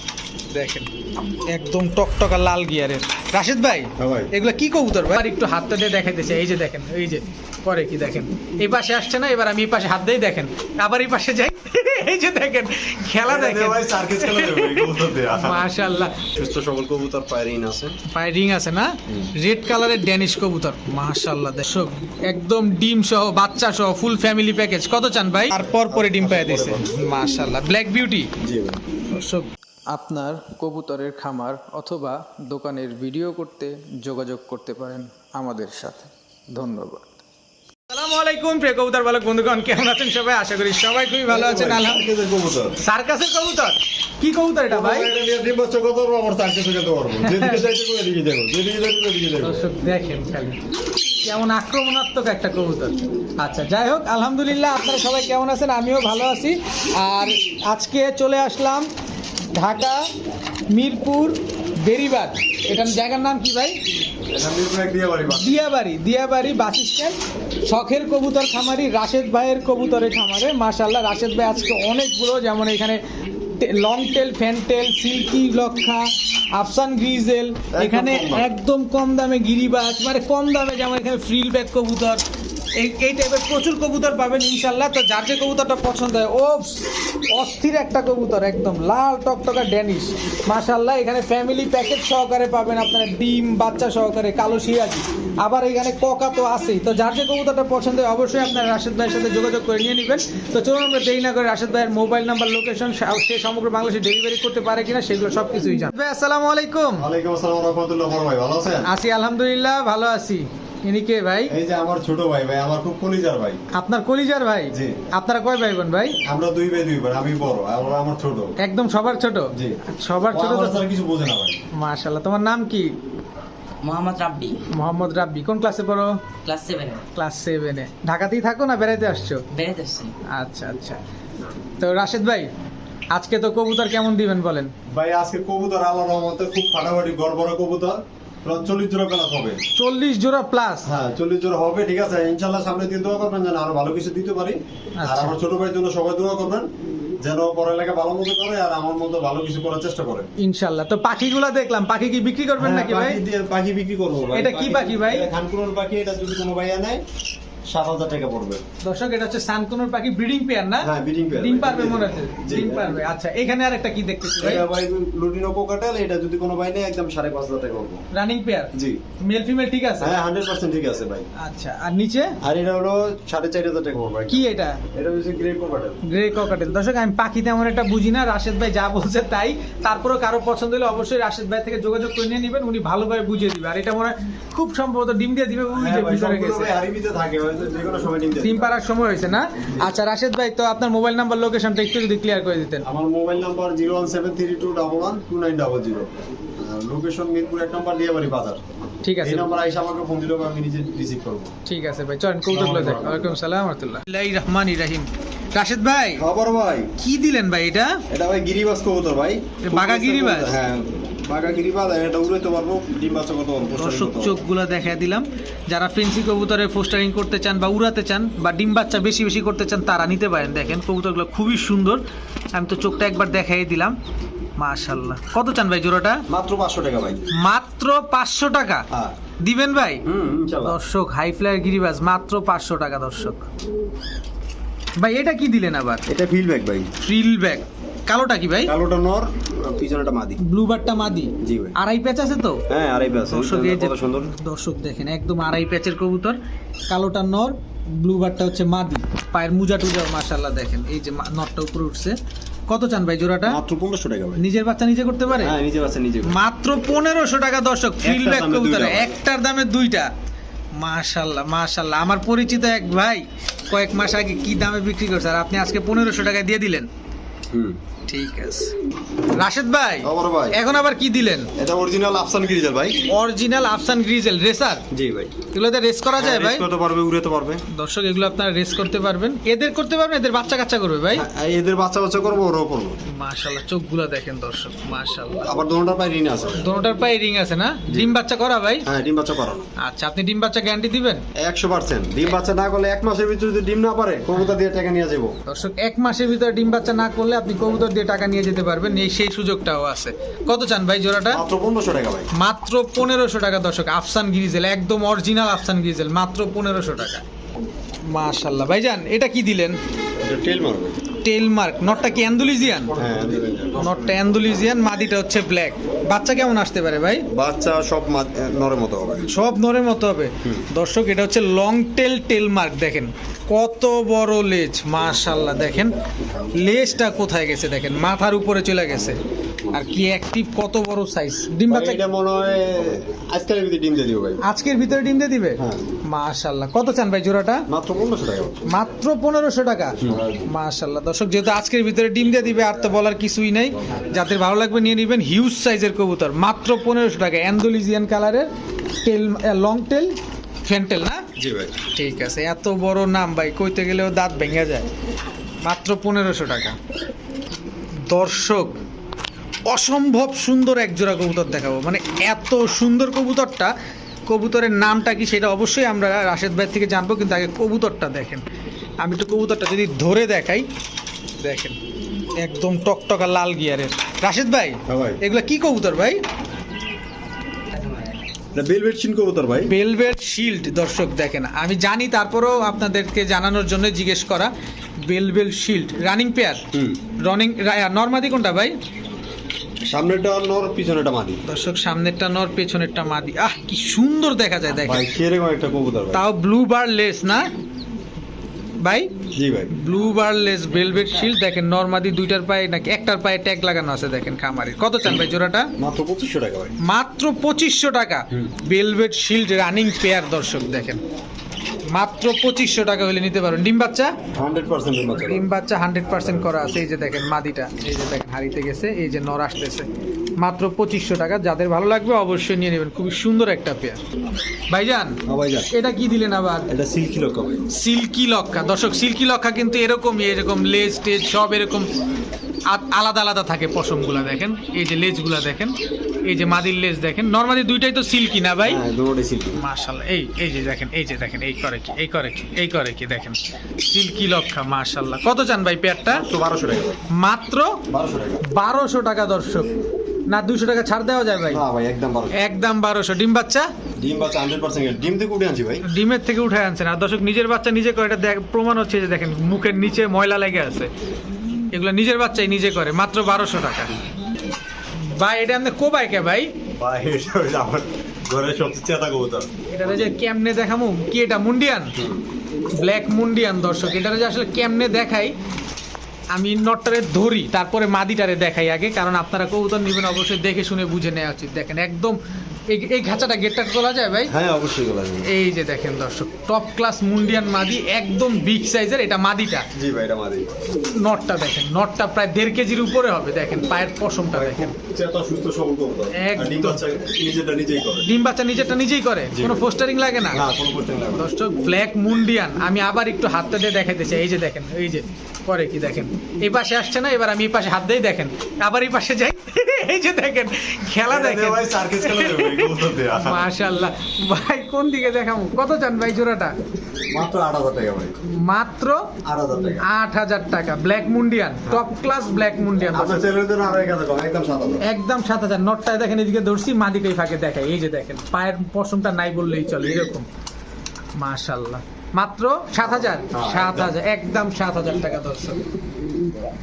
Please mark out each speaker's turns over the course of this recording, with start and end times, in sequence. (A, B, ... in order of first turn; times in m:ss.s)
0:00.5-0:00.9 A
0:01.4-0:16.2 A
0:04.0-0:04.3 B
0:13.2-0:15.7 B
0:16.2-0:18.0 B
0:18.1-0:28.3 A
0:25.6-0:26.9 B
0:28.4-0:28.8 B
0:29.1-0:37.1 A
0:37.9-0:42.0 A
0:41.3-0:42.8 B
0:42.8-0:45.1 A
0:44.7-0:49.7 B
0:47.2-0:47.6 A
0:49.4-0:50.6 A
0:51.2-0:58.9 A
0:59.5-1:00.0 A
1:00.7-1:03.8 A
1:04.3-1:05.6 B
1:05.3-1:13.0 A
1:13.6-1:22.2 A
1:17.7-1:18.5 B
1:22.8-1:47.1 A
1:47.0-1:48.9 B
1:48.8-1:51.5 A
1:51.5-1:53.6 B
1:53.7-1:56.2 A
1:54.7-1:55.0 B
1:56.2-1:58.6 B
1:58.6-2:00.8 A
1:59.5-2:01.6 B
2:01.7-2:02.9 A
2:03.8-2:04.6 C
2:04.7-2:06.2 A
2:06.4-2:07.0 C
2:07.1-2:09.5 A
2:09.5-2:10.1 C
2:10.3-2:11.0 A
2:11.8-2:12.5 A
2:13.1-2:14.7 A
2:14.9-2:19.6 B
2:19.7-2:20.9 A
2:20.8-2:26.7 B
2:25.0-2:25.4 A
2:27.2-2:30.3 B
2:30.4-2:33.2 A
2:32.6-2:37.0 B
2:34.3-2:35.3 A
2:37.7-2:38.6 B
2:38.8-2:44.6 A
2:40.8-2:43.0 B
2:44.4-2:48.0 B
2:48.1-2:50.2 A
2:48.7-2:49.0 B
2:50.0-2:51.3 B
2:51.4-2:52.4 A
2:52.4-2:56.0 B
2:54.3-2:54.8 A
2:56.0-3:06.7 A
3:05.7-3:08.7 B
3:08.4-3:12.8 A
3:12.8-3:18.6 B
3:19.0-3:19.5 A
3:19.2-3:21.5 B
3:21.6-3:26.2 A
3:22.5-3:23.4 B
3:26.2-3:26.9 B
3:27.0-3:28.0 A
3:28.1-3:34.4 B
3:29.6-3:30.6 A
3:33.8-3:42.0 A
3:42.5-3:44.0 A
3:44.6-3:46.2 A
3:46.3-3:47.3 B
3:47.3-3:48.9 A
3:48.9-3:49.2 B
3:49.4-3:50.0 A
3:50.0-3:50.8 B
3:50.6-3:53.4 A
3:55.0-3:56.0 A
3:56.1-3:56.9 B
3:57.0-3:58.7 A
3:58.6-4:00.4 B
4:00.4-4:02.6 A
4:01.4-4:01.8 B
4:02.7-4:04.3 B
4:03.3-4:06.4 A
4:06.9-4:12.2 A
4:12.7-4:13.6 A
4:13.5-4:14.4 B
4:14.4-4:15.5 A
4:15.4-4:16.4 B
4:16.2-4:20.1 A
4:18.0-4:19.2 B
4:20.8-4:26.9 A
4:27.5-4:27.8 B
4:28.1-4:28.7 A
4:29.3-4:31.5 A
4:30.0-4:30.6 B
4:31.6-4:33.0 B
4:33.0-4:34.8 A
4:34.9-4:35.3 B
4:35.5-4:36.7 A
4:36.2-4:37.6 B
4:37.7-4:41.2 A
4:41.1-4:43.0 B
4:43.1-4:45.5 A
4:45.4-4:46.7 B
4:46.6-4:48.9 A
4:47.9-4:48.2 B
4:48.8-4:49.7 B
4:49.8-4:51.2 A
4:51.4-4:55.4 B
4:55.4-5:01.4 A
5:01.3-5:02.3 B
5:02.3-5:07.2 A
5:08.1-5:09.8 A
5:10.2-5:11.0 B
5:11.2-5:13.0 A
5:12.9-5:14.5 B
5:13.7-5:17.3 A
5:17.3-5:19.3 B
5:19.3-5:25.9 A
5:26.6-5:29.2 A
5:29.7-5:32.0 A
5:31.7-5:34.4 B
5:34.4-5:37.7 A
5:35.6-5:35.8 B
5:37.7-5:38.7 B
5:38.6-5:48.5 A
5:40.0-5:40.5 B
5:49.0-5:51.3 A
5:51.4-5:51.8 B
5:51.9-5:54.9 A
5:55.6-5:56.8 A
5:58.0-5:58.8 A
5:59.7-6:03.7 A
6:04.3-6:08.4 A
6:09.0-6:10.6 A
6:11.4-6:11.8 A
6:12.4-6:16.2 A
6:14.9-6:15.2 B
6:18.5-6:19.7 B
6:19.7-6:26.6 A
6:26.7-6:27.0 B
6:27.2-6:28.8 A
6:29.8-6:31.4 B
6:31.4-6:35.1 A
6:34.7-6:36.2 B
6:36.1-6:37.4 A
6:38.8-6:39.1 A
6:39.3-6:39.7 B
6:39.7-6:45.7 A
6:45.8-6:46.7 B
6:46.8-6:51.0 A
6:51.9-6:54.1 A
6:54.3-6:55.5 B
6:55.2-6:59.9 A
6:56.1-6:56.8 B
7:00.4-7:04.0 A
7:04.7-7:06.7 A
7:05.2-7:05.7 B
7:06.7-7:07.7 B
7:07.7-7:11.9 A
7:12.7-7:18.8 A
7:18.6-7:19.6 B
7:19.6-7:26.2 A
7:26.1-7:27.0 B
7:27.1-7:27.8 A
7:27.9-7:28.4 B
7:28.4-7:29.7 A
7:30.3-7:31.6 A
7:31.5-7:32.4 B
7:32.3-7:33.7 A
7:34.0-7:35.8 B
7:35.8-7:40.9 A
7:41.7-7:44.0 A
7:45.0-7:46.5 A
7:46.7-7:50.1 B
7:49.7-7:51.9 A
7:52.0-7:52.2 B
7:52.7-7:55.3 A
7:56.3-8:02.2 A
8:02.7-8:04.3 A
8:04.3-8:05.3 B
8:05.2-8:09.7 A
8:09.7-8:10.6 B
8:10.9-8:14.7 A
8:14.3-8:18.1 B
8:16.1-8:16.8 A
8:18.0-8:20.4 A
8:19.3-8:19.6 B
8:20.3-8:21.3 B
8:21.2-8:36.5 A
8:31.0-8:33.5 B
8:37.1-8:38.2 B
8:38.2-8:39.1 A
8:39.2-8:39.9 B
8:39.8-8:43.2 A
8:42.9-8:44.8 B
8:44.8-8:50.3 A
8:51.2-8:55.6 A
8:52.8-8:54.0 B